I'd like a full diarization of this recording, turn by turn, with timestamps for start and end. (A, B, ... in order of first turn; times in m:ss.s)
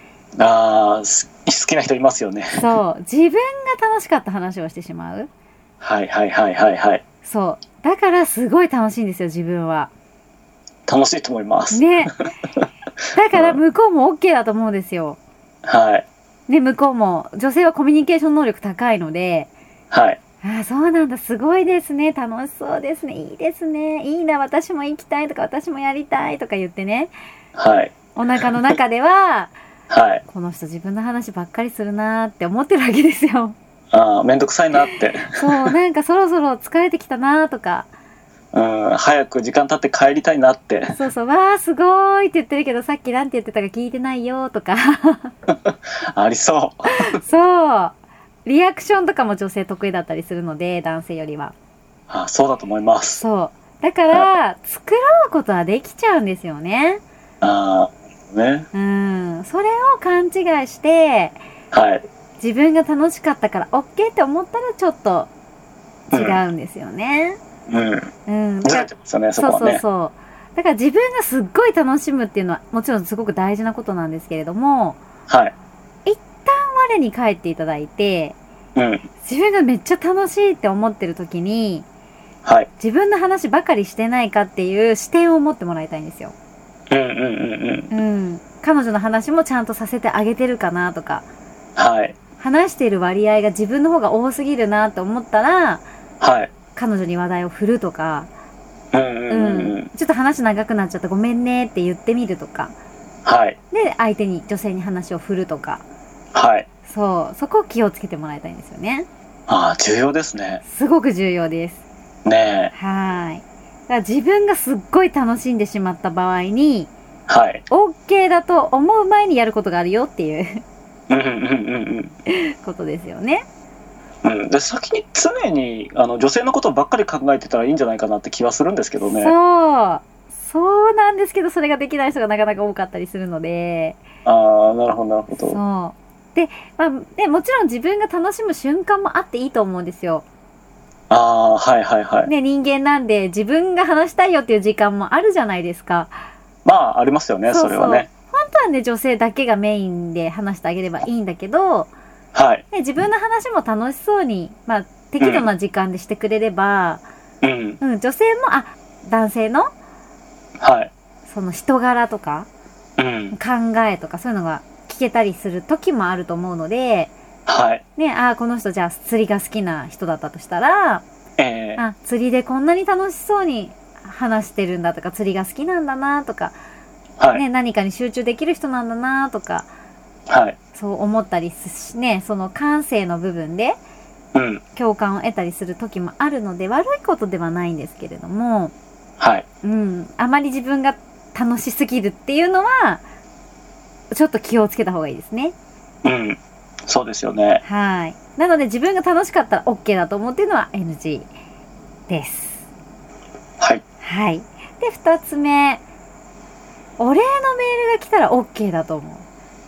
0:00.4-0:02.7 A
0:02.5-0:05.3 B
0:05.8-0:07.0 A
0:07.2-0:09.9 B
0:10.9-0:12.6 A
0:11.7-0:12.1 B
0:13.1-0:15.2 B
0:13.3-0:13.6 A
0:15.6-0:16.0 A
0:16.5-0:19.5 B
0:19.9-0:20.2 A
0:20.4-0:27.1 B
0:27.6-0:28.0 A
0:28.1-0:29.5 B
0:29.9-0:30.2 A
0:30.3-0:33.6 B
0:33.9-0:35.7 A
0:34.8-0:37.9 B
0:38.5-0:41.0 A
0:40.9-0:45.3 B
0:45.5-0:47.2 A
0:46.9-0:51.5 B
0:52.1-0:53.2 A
0:53.2-0:57.0 B
0:57.4-0:58.7 A
0:58.7-1:01.4 B
1:01.7-1:02.0 A
1:02.4-1:05.3 B
1:06.1-1:06.4 A
1:06.1-1:07.4 B
1:07.7-1:08.1 A
1:08.3-1:15.0 B
1:08.6-1:09.8 A
1:15.3-1:15.5 A
1:16.0-1:18.4 B
1:18.7-1:19.1 A
1:19.2-1:21.8 B
1:22.4-1:22.7 A
1:22.8-1:26.3 B
1:26.9-1:27.9 A
1:27.9-1:31.2 B
1:31.8-1:32.2 A
1:32.4-1:35.8 B
1:36.2-1:36.5 A
1:36.7-1:38.3 B
1:38.9-1:39.9 A
1:39.3-1:42.7 B
1:43.2-1:43.6 A
1:43.7-1:45.8 B
1:46.3-1:46.6 A
1:46.9-1:49.1 B
1:49.5-1:50.6 A
1:50.6-1:51.8 B
1:52.2-1:52.7 A
1:52.7-1:56.9 B
1:57.3-1:57.6 A
1:57.7-2:00.6 B
2:01.1-2:02.1 A
2:02.3-2:03.4 B
2:04.2-2:09.3 A
2:09.1-2:14.0 B
2:14.2-2:15.6 A
2:15.5-2:20.2 B
2:21.1-2:22.3 A
2:22.2-2:26.1 B
2:26.6-2:28.1 A
2:27.4-2:31.9 B
2:32.3-2:32.6 A
2:32.7-2:37.0 B
2:35.2-2:35.5 A
2:37.4-2:37.8 A
2:37.8-2:39.7 B
2:40.6-2:40.9 A
2:41.3-2:42.5 B
2:43.0-2:43.4 A
2:43.3-2:47.1 B
2:47.5-2:47.8 A
2:48.0-2:51.0 B
2:51.4-2:51.8 A
2:51.8-2:56.5 B
2:57.3-2:59.7 B
3:00.3-3:00.6 A
3:00.7-3:03.8 B
3:04.3-3:04.6 A
3:04.7-3:08.7 B
3:09.2-3:09.4 A
3:09.6-3:13.0 B
3:14.1-3:15.5 B
3:16.0-3:17.6 A
3:17.6-3:21.3 B
3:22.1-3:22.7 B
3:24.0-3:25.8 B
3:27.0-3:29.2 B